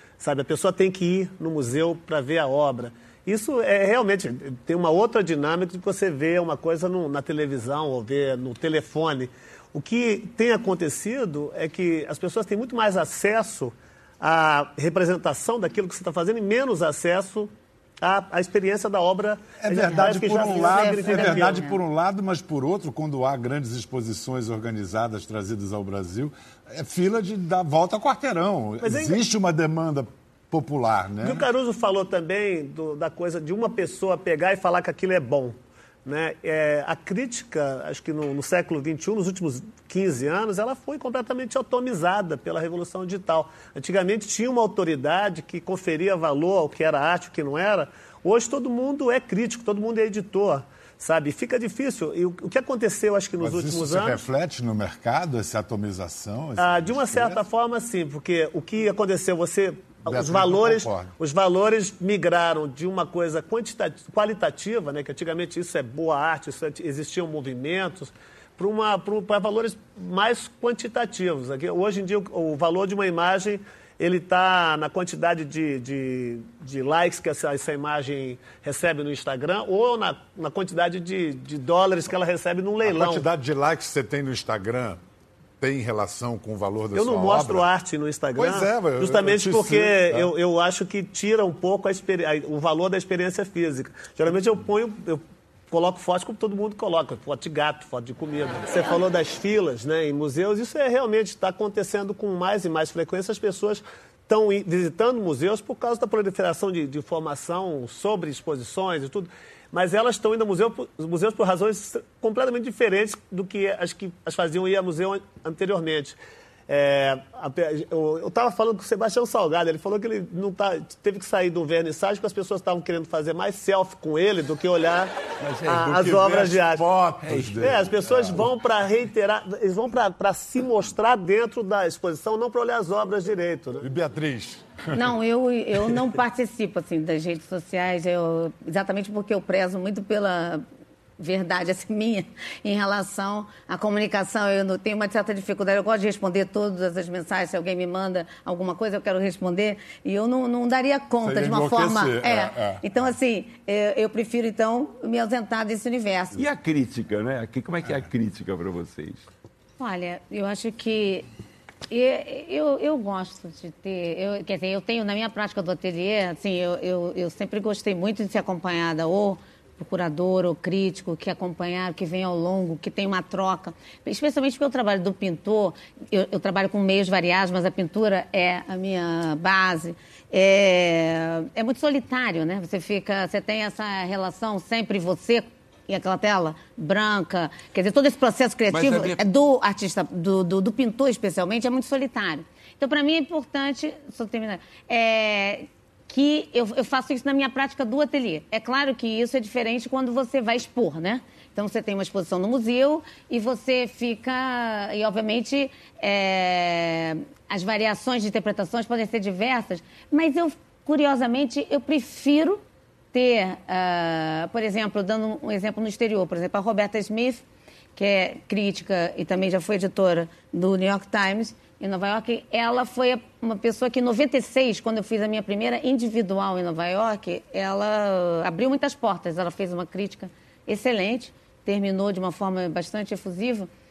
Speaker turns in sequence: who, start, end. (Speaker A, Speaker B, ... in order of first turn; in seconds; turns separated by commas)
Speaker A: 0.2-21.6, Speaker B: 19.6-31.4, Speaker C: 19.9-21.8, Speaker A: 28.8-29.2, Speaker A: 31.2-54.2, Speaker B: 53.4-57.4, Speaker A: 56.6-83.2, Speaker B: 60.0-61.1, Speaker B: 82.8-85.0, Speaker B: 85.6-87.7, Speaker A: 86.9-125.1, Speaker B: 88.3-90.3, Speaker D: 125.4-126.5, Speaker A: 125.6-126.8, Speaker B: 125.9-128.5, Speaker D: 127.2-127.7, Speaker A: 127.6-133.9, Speaker B: 133.8-135.0, Speaker C: 134.9-140.6, Speaker C: 141.2-156.4, Speaker B: 151.2-152.8, Speaker D: 156.3-159.3, Speaker C: 159.8-161.2, Speaker C: 161.9-212.6, Speaker D: 188.7-189.2, Speaker C: 213.1-217.4, Speaker C: 217.9-233.7